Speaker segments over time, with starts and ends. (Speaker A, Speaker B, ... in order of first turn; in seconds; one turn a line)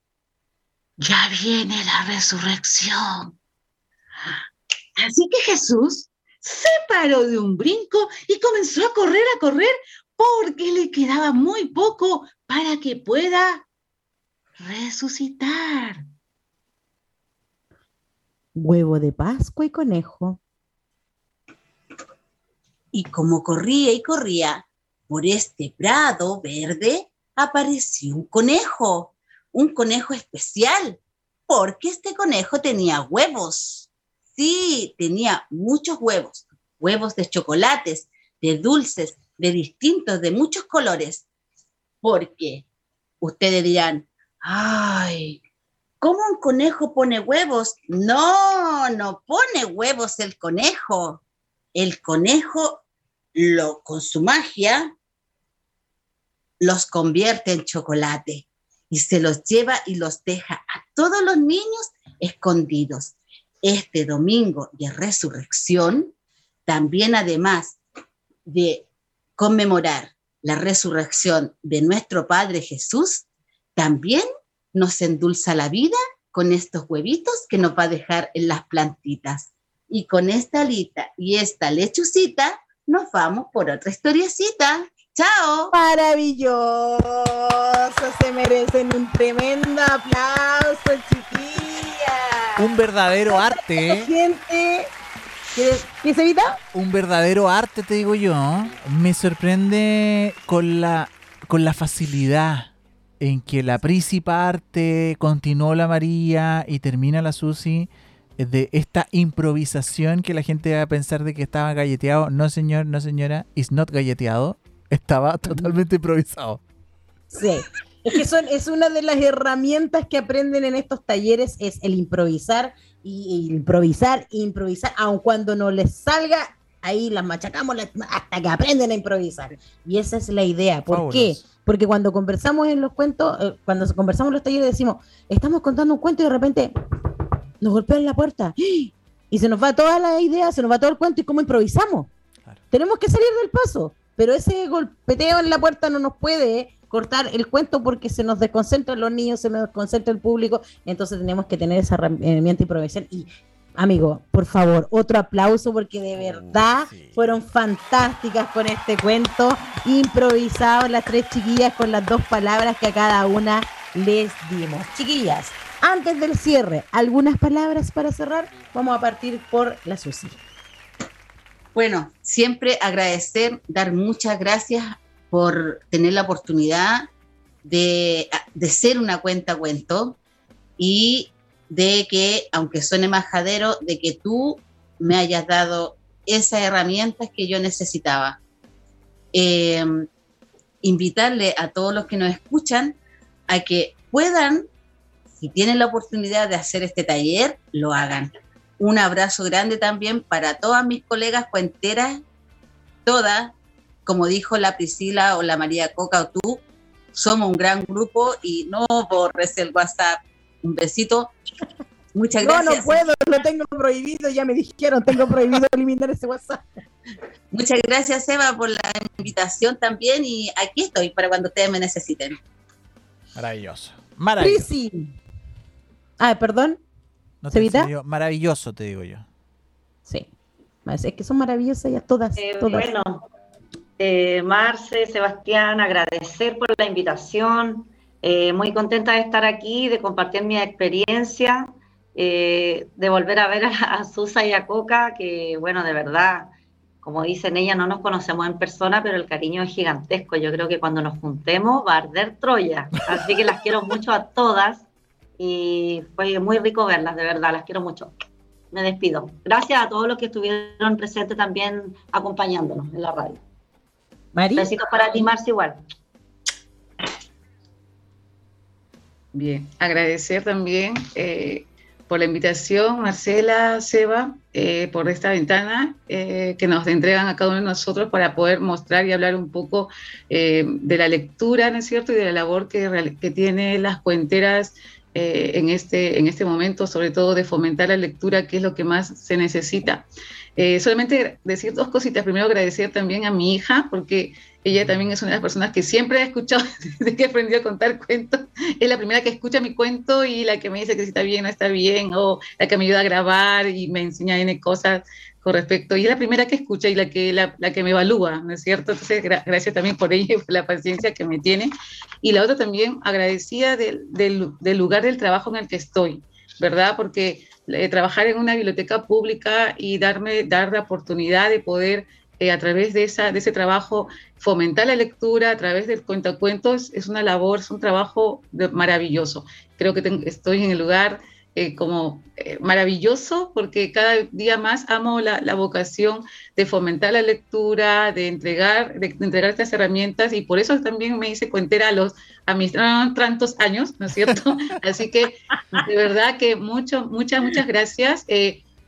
Speaker A: 1.0-3.3
Speaker A: 5.0-13.6
Speaker A: 14.6-16.0
Speaker B: 18.6-20.4
Speaker C: 22.9-41.2
Speaker C: 42.0-42.6
Speaker C: 43.2-45.4
Speaker C: 46.0-51.2
Speaker C: 51.8-52.8
Speaker C: 53.4-54.9
Speaker C: 56.6-66.1
Speaker C: 66.7-67.8
Speaker C: 68.5-68.9
Speaker C: 69.4-85.7
Speaker B: 85.7-92.7
Speaker D: 92.6-94.1
Speaker B: 93.3-94.9
Speaker B: 95.5-96.6
Speaker D: 96.7-116.6
Speaker B: 115.5-115.8
Speaker B: 117.3-136.7
Speaker D: 130.9-131.4
Speaker B: 137.6-142.1
Speaker B: 142.7-170.4
Speaker D: 156.2-157.3
Speaker C: 171.8-177.1
Speaker C: 177.6-180.2
Speaker C: 180.8-188.4
Speaker C: 189.3-190.1
Speaker C: 190.8-193.0
Speaker C: 193.5-194.7
Speaker C: 195.4-202.2
Speaker C: 203.1-203.6
Speaker C: 204.1-206.6
Speaker C: 207.1-211.3
Speaker C: 212.2-213.0
Speaker B: 212.4-216.7
Speaker C: 217.5-222.4
Speaker D: 223.3-224.7
Speaker B: 224.4-225.1
Speaker B: 226.2-226.8
Speaker D: 227.4-229.3
Speaker B: 227.5-227.9
Speaker B: 230.8-232.9
Speaker E: 232.4-233.2
Speaker E: 234.0-246.5
Speaker E: 247.0-254.9
Speaker E: 255.4-258.1
Speaker E: 258.7-263.4
Speaker B: 264.3-264.7
Speaker E: 264.6-265.8
Speaker A: 269.3-311.7
Speaker A: 312.2-348.6